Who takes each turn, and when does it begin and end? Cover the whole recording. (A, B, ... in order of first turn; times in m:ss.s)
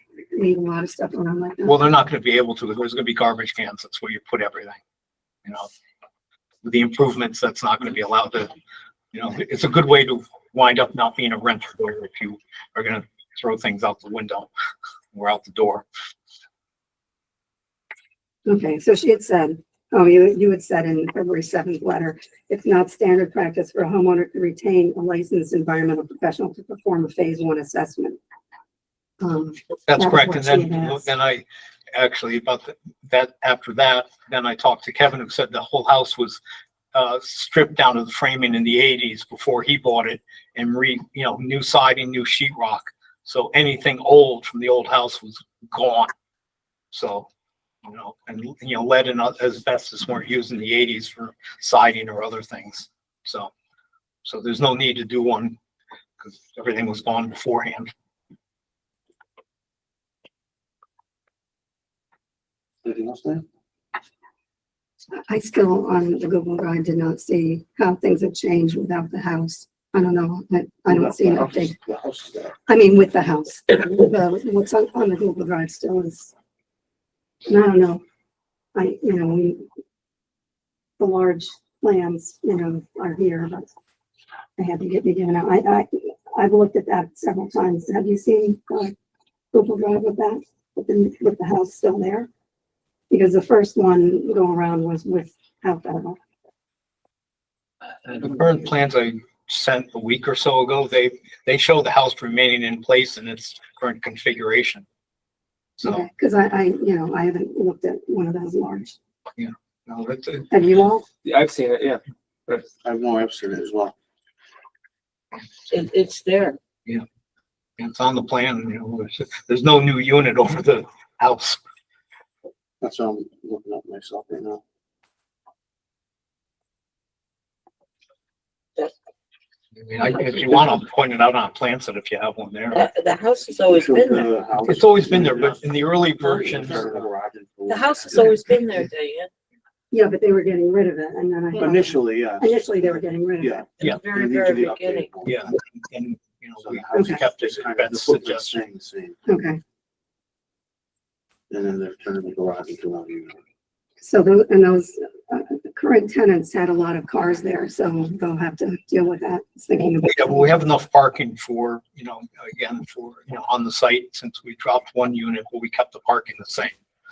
0:00.3-0:01.9 A
0:01.6-0:04.8 B
0:06.6-0:08.6 B
0:09.1-0:14.5 B
0:15.1-0:15.8 B
0:18.4-0:28.2 A
0:29.2-0:31.1 A
0:29.9-0:36.4 B
0:36.9-0:46.1 B
0:46.9-0:47.3 B
0:47.8-0:53.5 B
0:54.2-0:55.6 B
0:56.2-0:57.9 B
1:02.8-1:03.4 C
1:05.3-1:11.7 A
1:10.9-1:12.5 C
1:12.7-1:16.3 A
1:17.5-1:18.0 A
1:18.7-1:19.7 A
1:21.0-1:23.7 A
1:24.6-1:28.9 A
1:29.5-1:32.3 A
1:33.1-1:36.2 A
1:38.0-1:44.8 B
1:45.8-1:46.1 B
1:45.8-1:49.0 A
1:49.4-1:50.5 B
1:50.5-1:51.1 A
1:52.8-1:53.9 C
1:55.7-1:56.6 D
1:57.8-2:01.6 B
2:02.8-2:04.6 C
2:09.8-2:12.9 B
2:10.1-2:10.6 D
2:12.7-2:14.3 D
2:13.7-2:15.6 C
2:14.6-2:16.8 B
2:16.2-2:18.4 C
2:16.3-2:16.6 D
2:17.7-2:19.3 D
2:19.9-2:23.6 A
2:21.5-2:25.4 C
2:23.8-2:25.1 D
2:25.2-2:28.5 B
2:26.6-2:29.2 C
2:26.9-2:27.2 A
2:29.3-2:29.6 A
2:31.5-2:33.4 C
2:34.0-2:40.6 A
2:40.0-2:46.7 B